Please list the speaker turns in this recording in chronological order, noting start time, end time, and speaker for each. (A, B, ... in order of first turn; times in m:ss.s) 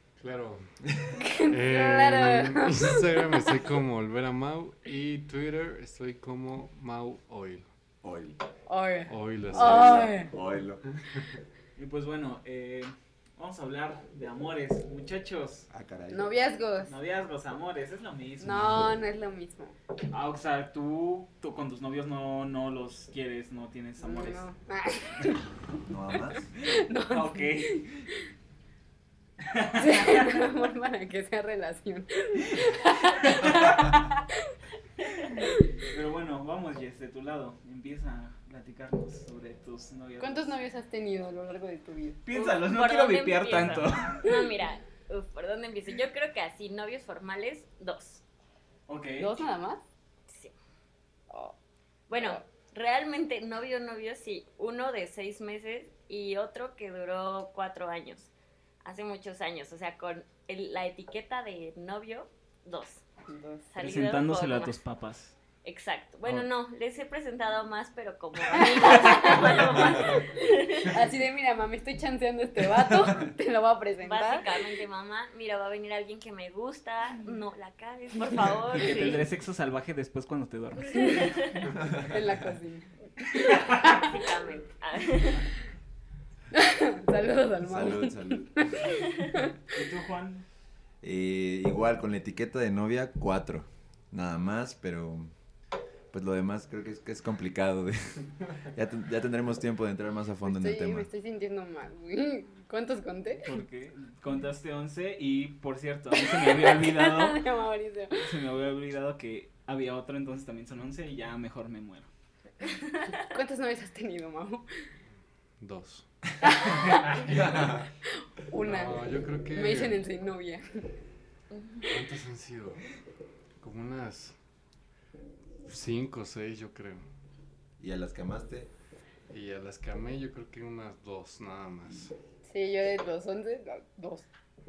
0:00.2-0:00.7 A
0:01.1-0:03.4 B
0:01.5-0:07.6 A
0:08.0-0:08.4 C
0:08.7-0:10.3 B
0:09.1-0:10.2 A
0:09.5-0:10.8 C
0:11.8-0:15.7 D
0:15.7-0:16.3 C
0:16.1-0:16.9 B
0:16.9-0:18.7 D
0:18.4-0:19.8 B
0:20.1-0:24.5 D
0:24.0-0:25.4 B
0:25.9-0:26.5 C
0:26.6-0:28.2 B
0:27.1-0:28.0 D
0:29.4-0:30.4 D
0:29.7-0:34.4 B
0:33.2-0:33.9 D
0:35.3-0:35.7 B
0:35.8-0:40.5 D
0:40.2-0:42.2 B
0:42.2-0:44.3 D
0:42.3-0:48.2 E
0:48.9-0:49.3 D
0:49.2-0:49.8 B
0:50.3-0:50.5 E
0:51.3-0:51.6 B
0:52.1-0:58.3 E
0:52.2-0:52.4 B
0:58.8-1:03.0 E
1:03.3-1:03.7 B
1:03.7-1:04.8 E
1:03.8-1:05.3 D
1:05.6-1:11.0 E
1:08.6-1:10.3 B
1:10.8-1:14.4 B
1:14.0-1:19.2 E
1:18.7-1:21.6 D
1:20.9-1:21.7 E
1:21.0-1:21.2 B
1:21.9-1:24.1 B
1:23.8-1:25.5 E
1:26.5-1:29.6 B
1:27.6-1:28.6 C
1:29.7-1:30.4 D
1:31.0-1:35.3 C
1:36.1-1:41.1 C
1:40.4-1:43.6 B
1:43.4-1:47.4 D
1:46.1-1:48.2 B
1:48.2-1:52.1 D
1:53.1-1:54.6 B
1:55.6-1:56.0 A
1:56.4-1:57.2 B
1:56.6-1:57.8 A
1:57.3-1:57.8 C
1:58.5-2:00.6 B
1:58.6-2:00.0 A
2:01.5-2:01.9 E
2:01.8-2:02.8 A
2:03.6-2:04.3 A
2:05.6-2:07.0 A
2:07.8-2:08.7 C
2:09.3-2:12.1 A
2:12.5-2:14.3 B